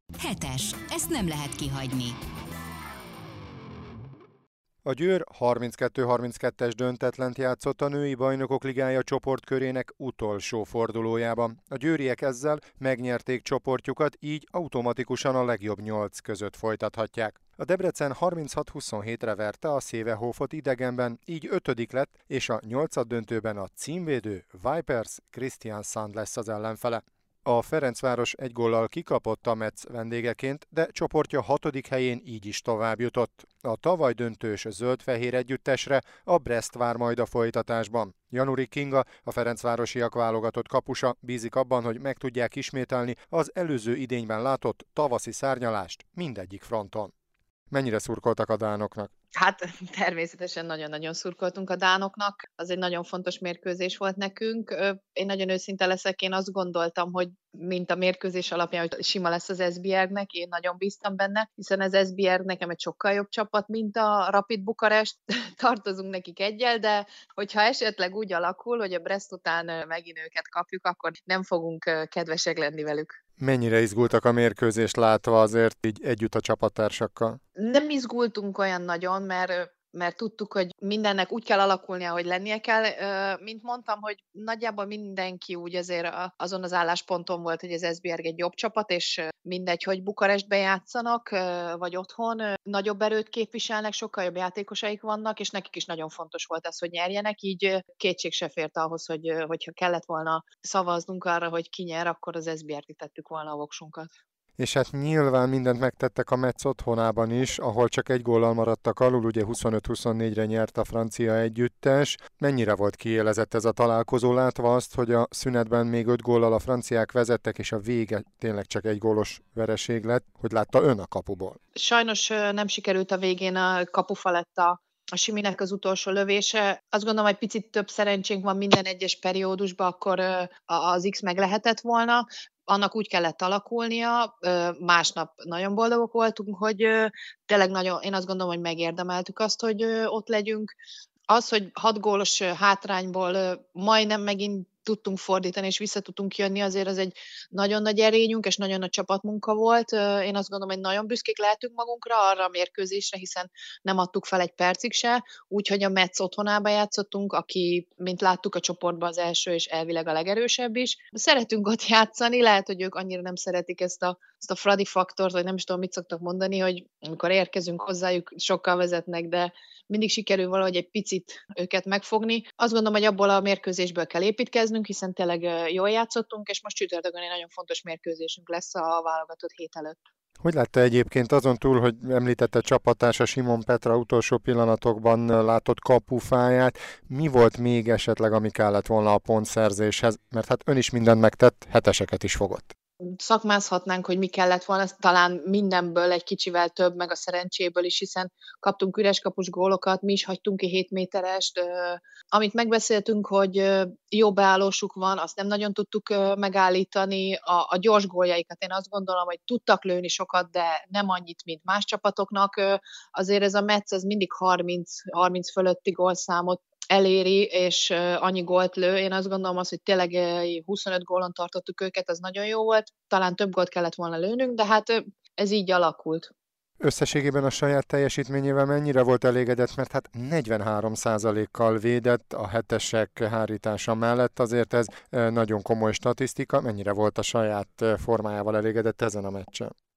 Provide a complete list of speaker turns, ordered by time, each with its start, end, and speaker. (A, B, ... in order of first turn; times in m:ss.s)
0:00.2-0:02.2 A
0:04.8-0:47.1 B
0:47.7-0:49.1 B
0:49.4-1:13.1 C
1:13.4-1:17.4 B
1:17.6-1:44.1 C
1:44.6-2:01.6 B
2:01.8-2:20.7 C
2:21.3-3:00.0 C
3:00.4-3:12.7 B
3:13.2-3:46.3 C
3:46.8-3:59.7 B